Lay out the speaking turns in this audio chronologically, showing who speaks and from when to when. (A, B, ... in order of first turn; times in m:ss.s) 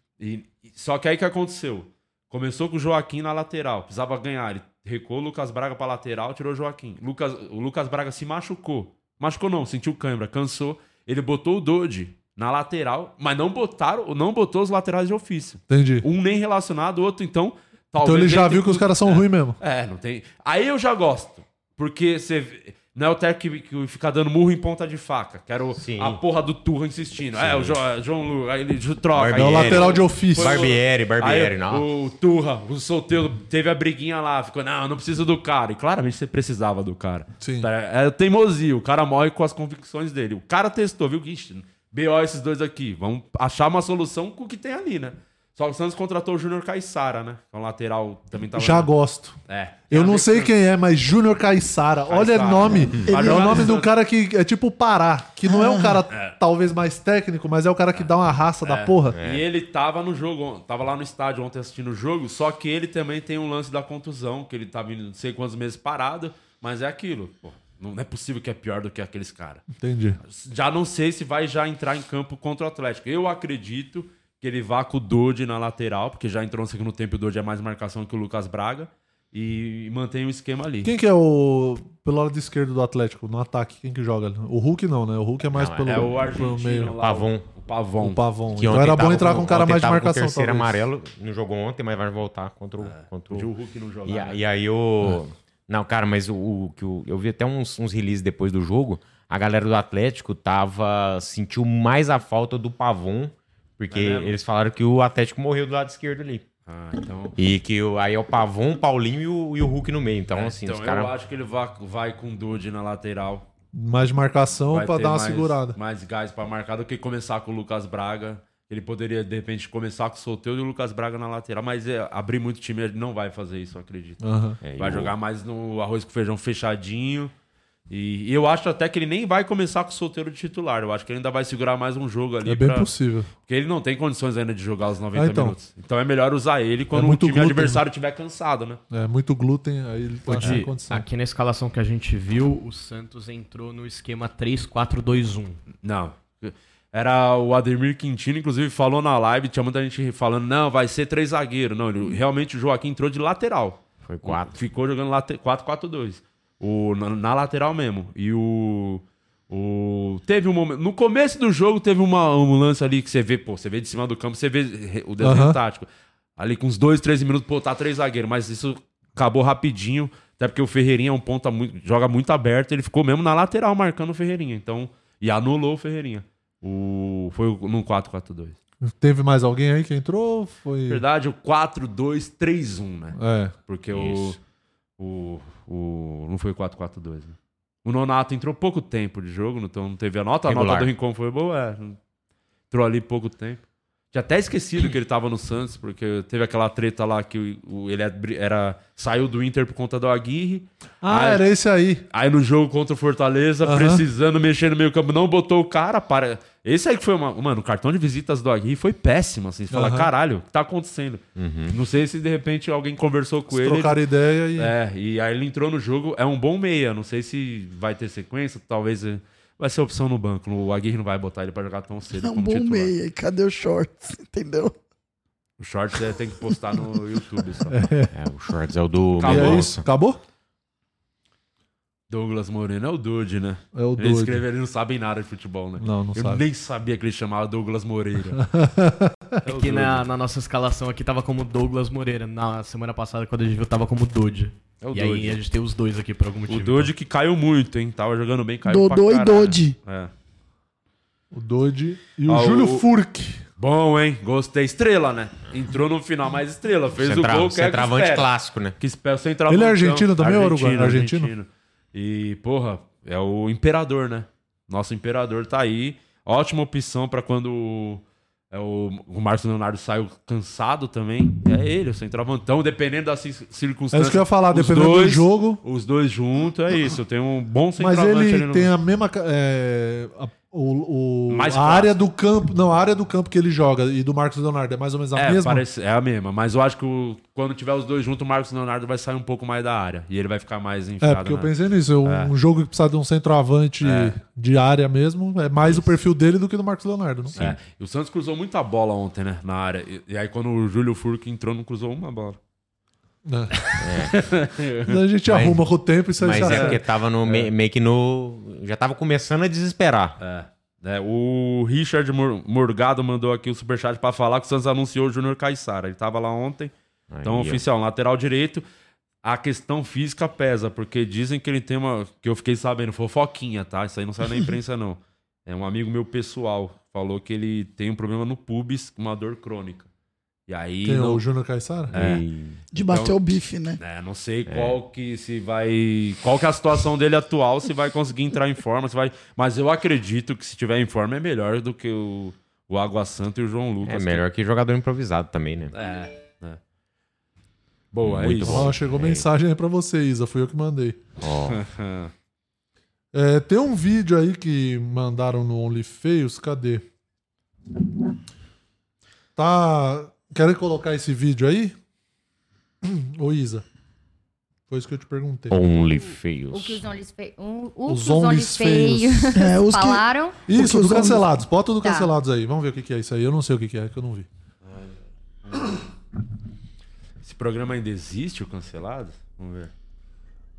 0:00.2-0:48.9 A
0:15.7-0:16.1 B
0:18.0-0:19.6 B
0:25.8-0:26.2 C
0:27.3-0:27.8 C
0:29.1-0:31.8 C
0:29.4-0:30.7 B
0:37.4-0:37.7 B
0:48.6-0:49.4 B
0:49.5-0:50.5 A
0:49.9-0:59.2 B
0:52.1-0:53.9 A
0:53.0-0:53.7 D
0:55.5-0:56.0 D
0:56.1-0:56.4 A
0:58.6-1:09.6 A
0:59.1-0:59.4 C
1:09.8-1:10.2 B
1:10.2-1:20.9 A
1:20.8-1:27.0 B
1:25.5-1:26.2 C
1:25.8-1:28.2 A
1:27.0-1:27.5 C
1:28.0-1:30.8 B
1:28.6-1:33.5 C
1:32.8-1:34.4 A
1:34.1-1:46.5 C
1:43.9-1:44.4 A
1:46.7-1:47.4 A
1:47.4-1:51.1 C
1:50.3-1:53.5 A
1:53.7-1:55.8 B
1:54.7-2:04.2 A
2:04.2-2:04.6 B
2:04.6-2:05.1 C
2:04.8-2:07.3 A
2:07.9-2:12.9 A
2:12.4-2:13.3 B
2:13.4-2:18.8 A
2:15.2-2:15.6 B
2:16.9-2:17.8 B
2:18.9-2:21.1 B
2:20.3-2:25.6 E
2:20.4-2:20.7 A
2:25.8-2:58.6 A
2:34.0-2:34.6 C
2:45.2-2:45.6 B
2:58.8-3:01.0 B
3:00.9-3:04.4 A
3:03.2-3:03.6 B
3:03.9-3:04.4 C
3:05.0-3:12.0 A
3:10.5-3:10.9 C
3:12.7-3:21.4 A
3:21.0-3:22.0 B
3:22.1-3:34.0 A
3:23.6-3:24.0 B
3:29.7-3:30.1 B
3:31.4-3:31.8 C
3:33.5-3:34.7 B
3:34.6-3:42.9 A
3:42.2-3:44.7 D
3:45.6-3:47.8 A
3:47.7-3:48.1 B
3:48.1-3:49.8 C
3:49.2-3:49.7 A
3:49.2-3:50.2 B
3:52.1-3:58.4 A
3:53.7-3:54.4 B
3:55.8-3:56.4 B
3:58.4-3:59.4 B
3:59.4-4:00.1 A
3:59.5-4:06.9 E
4:04.8-4:05.4 A
4:06.5-4:10.1 A
4:08.7-4:09.8 D
4:11.3-4:13.4 B
4:12.3-4:12.9 A
4:13.6-4:38.7 A
4:17.0-4:18.8 C
4:19.5-4:21.3 B
4:33.9-4:35.6 B
4:37.8-4:45.6 B
4:41.3-4:41.9 A
4:45.1-4:52.3 A
4:51.0-4:57.4 B
4:53.8-4:54.2 A
4:55.6-4:55.9 A
4:57.4-5:02.4 A
5:03.3-5:03.7 B
5:03.7-5:05.0 A
5:03.8-5:04.2 C
5:04.9-5:06.8 B
5:05.3-5:10.2 C
5:06.4-5:07.5 A
5:10.2-5:16.7 A
5:17.1-5:17.6 C
5:17.2-5:18.6 A
5:19.2-5:29.9 A
5:30.5-5:31.2 A
5:30.8-5:32.0 B
5:31.9-5:32.6 C
5:31.9-5:33.2 A
5:32.7-5:33.8 D
5:33.8-5:44.2 A
5:34.5-5:34.8 C
5:43.8-5:45.7 C
5:45.7-5:46.6 A
5:47.9-5:48.8 A
5:48.0-5:49.3 C
5:48.4-5:51.0 B
5:51.2-5:51.6 C
5:51.5-5:52.1 A
5:53.1-5:56.8 B
5:59.4-6:01.8 B
6:02.8-6:03.6 B
6:04.7-6:05.6 B
6:05.5-6:06.8 C
6:06.5-6:10.4 F
6:07.9-6:09.3 B
6:09.4-6:11.3 D
6:10.5-6:14.3 B
6:11.8-6:12.1 F
6:15.5-6:15.8 A
6:17.2-6:19.7 A